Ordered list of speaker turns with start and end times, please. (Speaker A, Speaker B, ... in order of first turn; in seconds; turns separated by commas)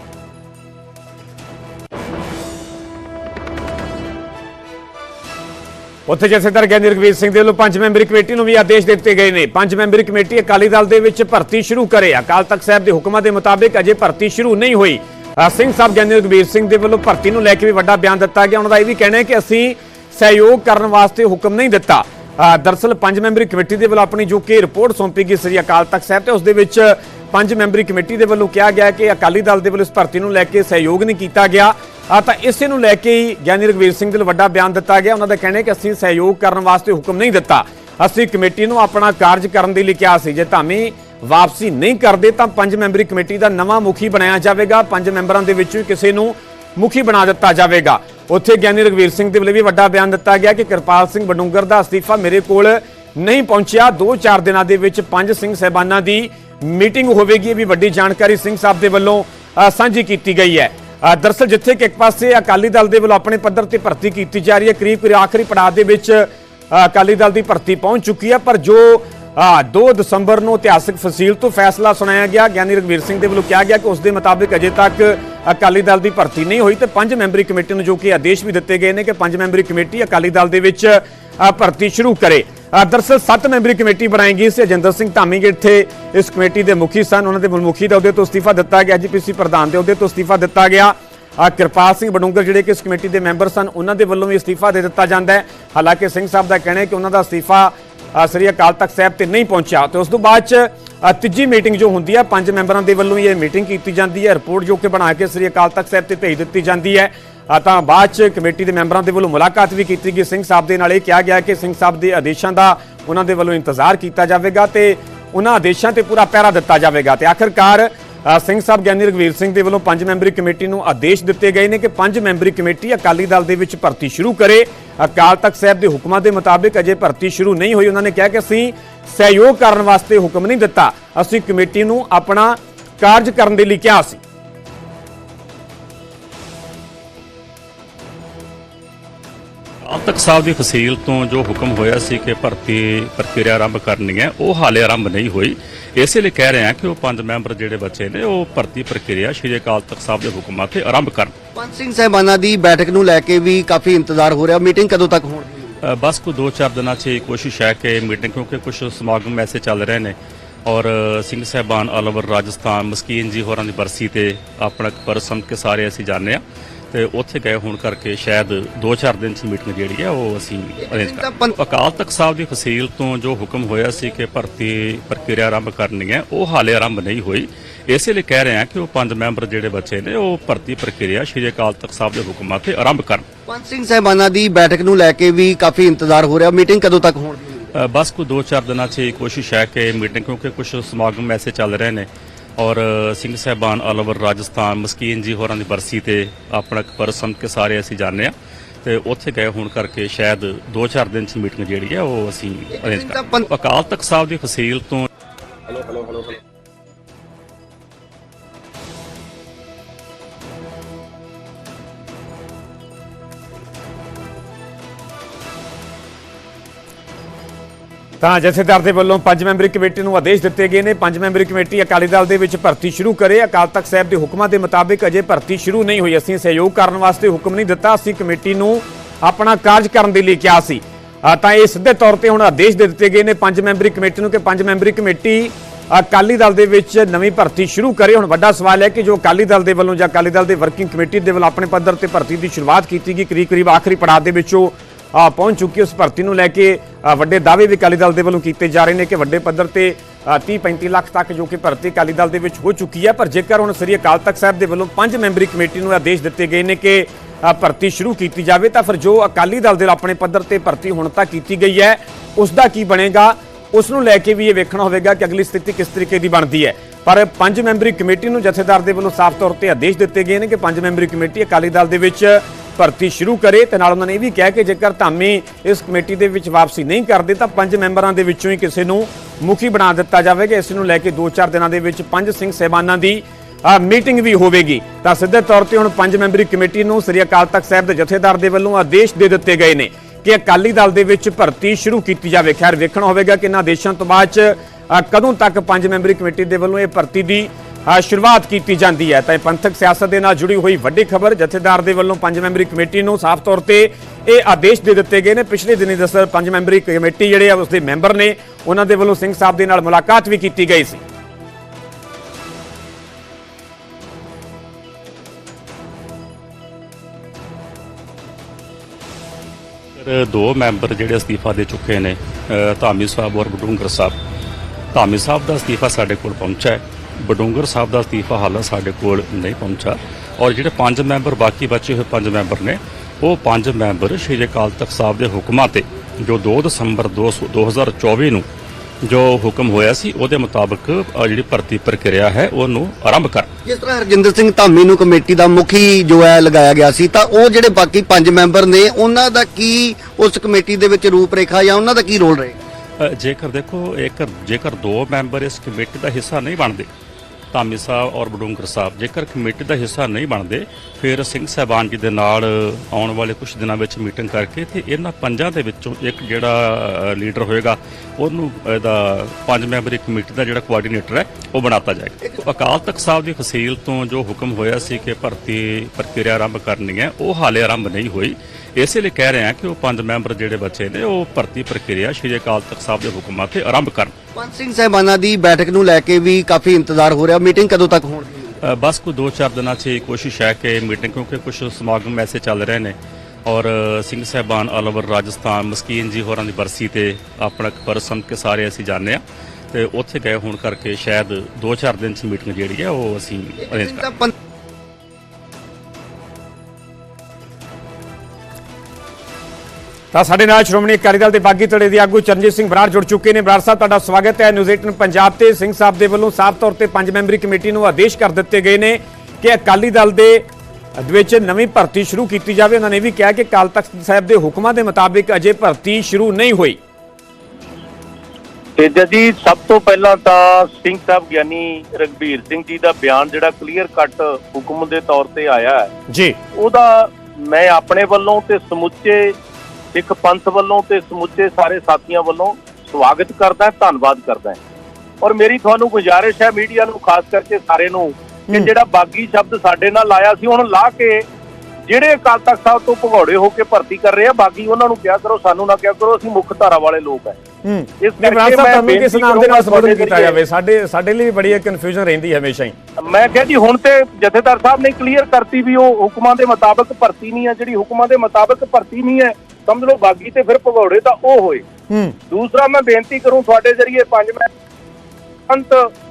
Speaker A: 6.1-134.2, Speaker B: 139.8-151.3, Speaker C: 151.5-155.6, Speaker B: 155.8-160.1, Speaker B: 160.7-166.4, Speaker B: 166.9-183.2, Speaker C: 170.8-171.5, Speaker C: 183.5-187.6, Speaker B: 187.7-192.1, Speaker B: 192.6-198.3, Speaker B: 198.8-205.1, Speaker C: 202.8-203.4, Speaker A: 218.2-311.0, Speaker B: 320.0-324.1, Speaker B: 324.9-338.4, Speaker B: 339.0-343.5, Speaker C: 343.6-352.6, Speaker B: 353.0-356.9, Speaker B: 357.5-384.1, Speaker C: 384.3-388.5, Speaker B: 388.6-392.9, Speaker B: 393.4-399.2, Speaker B: 399.7-404.0, Speaker C: 403.6-404.3, Speaker A: 410.1-420.4, Speaker A: 421.0-426.8, Speaker D: 428.8-435.9, Speaker A: 436.1-436.4, Speaker D: 436.6-439.4, Speaker D: 439.9-444.6, Speaker D: 445.2-451.2, Speaker D: 451.9-457.4, Speaker A: 457.6-462.7, Speaker D: 458.0-460.4, Speaker D: 463.0-471.6, Speaker A: 471.9-472.1, Speaker D: 472.3-474.5, Speaker D: 475.5-475.9